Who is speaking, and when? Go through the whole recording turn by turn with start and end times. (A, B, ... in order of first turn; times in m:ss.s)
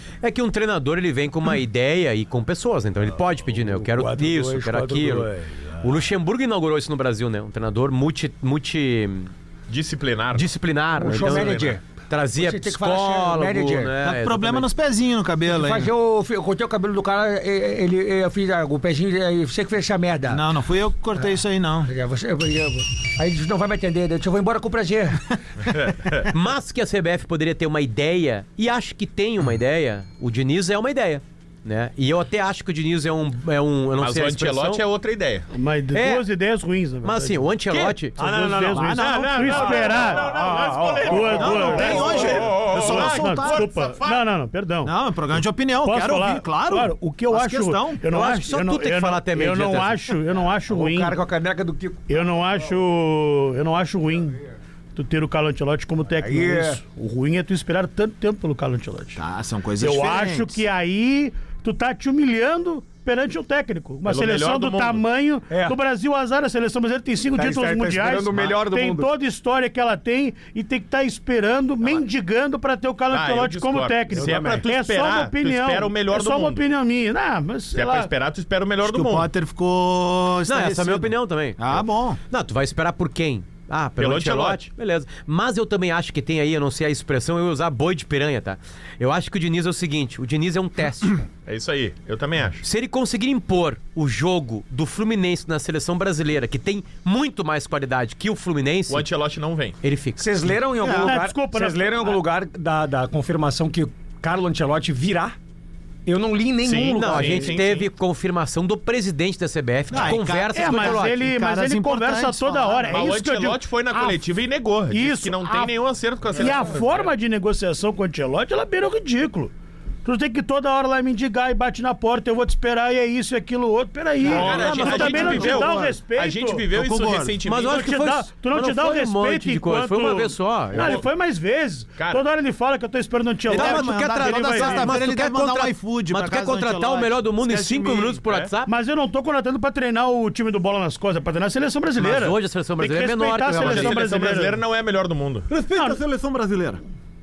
0:00.2-0:05.3 A
0:03.7-0:06.0 B
0:05.8-0:09.3 A
0:09.7-0:10.5 C
0:10.3-0:14.7 A
0:11.0-0:11.8 B
0:11.0-0:11.8 C
0:12.4-0:14.0 B
0:14.0-0:15.9 D
0:15.5-0:20.4 B
0:20.3-0:21.9 D
0:21.8-0:25.4 B
0:25.7-0:26.2 C
0:26.3-0:34.8 A
0:34.0-0:35.5 C
0:35.5-0:37.4 E
0:35.9-0:36.2 A
0:37.0-0:38.2 A
0:38.2-0:41.9 B
0:38.2-0:44.9 E
0:38.7-0:39.8 D
0:39.0-0:44.2 C
0:41.3-0:43.7 D
0:44.8-0:48.6 D
0:45.8-0:51.2 E
0:48.5-0:50.1 A
0:50.7-0:52.4 B
0:52.1-0:54.4 E
0:55.0-0:59.2 E
0:56.2-0:56.8 B
0:59.2-1:00.6 D
0:59.8-1:18.1 E
1:04.0-1:05.0 C
1:05.5-1:05.8 B
1:07.3-1:09.1 B
1:13.1-1:16.6 C
1:14.1-1:14.7 B
1:17.7-1:19.3 C
1:18.8-1:22.2 D
1:20.4-1:21.6 A
1:22.3-1:31.2 A
1:24.0-1:24.6 C
1:31.4-1:32.6 C
1:32.6-1:39.0 A
1:38.9-1:39.8 C
1:39.8-1:40.2 A
1:40.2-1:45.4 B
1:40.8-1:41.1 D
1:40.8-1:42.2 E
1:46.0-1:47.5 B
1:46.6-1:47.9 C
1:46.8-1:51.2 A
1:49.9-1:53.0 D
1:50.5-1:54.2 E
1:52.9-1:57.1 C
1:54.9-1:55.7 E
1:56.3-1:59.5 E
2:00.0-2:06.6 E
2:04.2-2:05.7 A
2:04.2-2:07.8 C
2:04.7-2:06.0 D
2:06.7-2:07.4 D
2:07.5-2:11.0 A
2:07.5-2:15.0 E
2:10.7-2:11.0 C
2:12.0-2:12.2 C
2:13.5-2:18.2 D
2:13.5-2:18.7 A
2:18.2-2:18.5 C
2:18.6-2:24.6 E
2:22.0-2:24.1 A
2:23.6-2:25.5 C
2:25.5-2:26.8 D
2:25.7-2:26.0 E